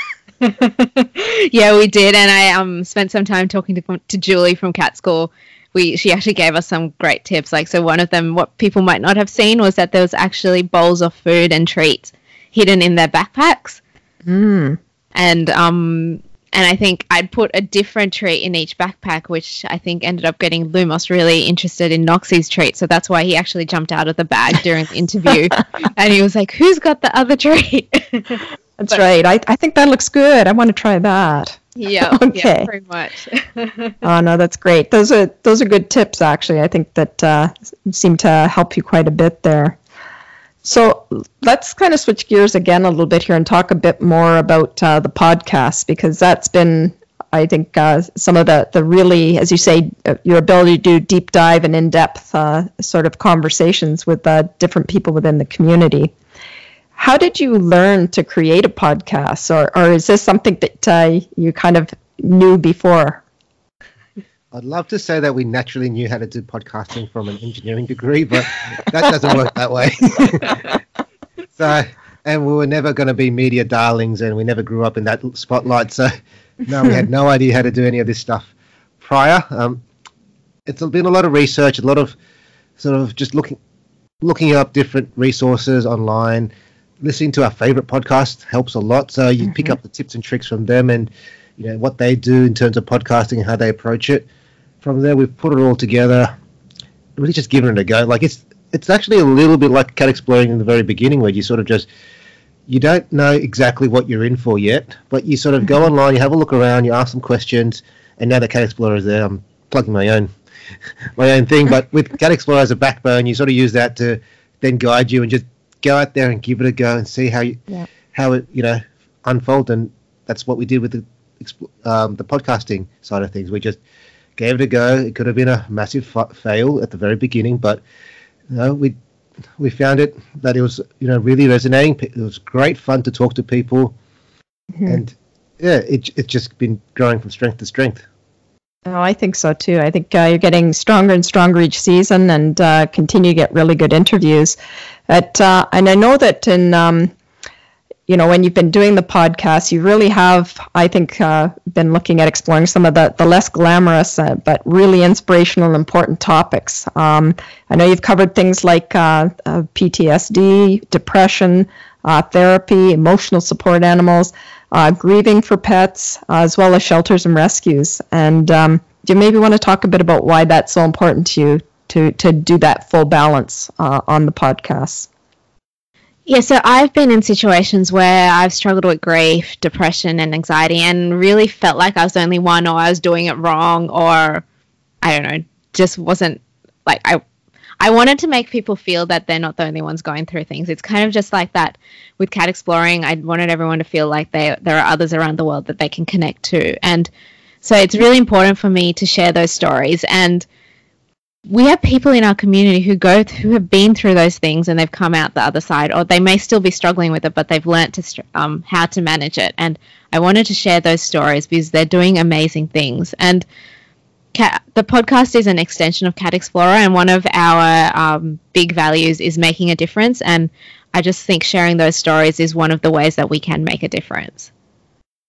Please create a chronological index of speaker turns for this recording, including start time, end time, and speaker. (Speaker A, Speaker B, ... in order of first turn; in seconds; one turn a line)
Speaker A: 0.4-13.8
Speaker B: 14.3-14.8
Speaker A: 15.1-29.0
Speaker B: 28.8-32.7
Speaker A: 31.8-34.0
Speaker B: 34.0-39.8
Speaker B: 40.6-56.1
Speaker B: 57.0-63.2
Speaker C: 64.5-70.8
Speaker C: 71.6-76.1
Speaker C: 76.7-79.8
Speaker C: 80.7-82.2
Speaker C: 82.8-83.6
Speaker C: 84.2-86.5
Speaker C: 87.0-94.3
Speaker C: 94.8-96.3
Speaker C: 97.2-101.9
Speaker C: 102.7-110.3
Speaker C: 111.2-123.8
Speaker C: 124.4-127.8
Speaker C: 128.5-129.0
Speaker C: 129.6-133.9
Speaker B: 134.8-135.0
Speaker C: 134.9-138.1
Speaker B: 138.9-144.6
Speaker B: 145.1-147.1
Speaker B: 148.1-175.1
Speaker A: 176.3-184.4
Speaker A: 185.0-187.2
Speaker A: 187.8-197.1
Speaker A: 197.6-200.5
Speaker A: 201.5-213.4
Speaker A: 214.3-224.5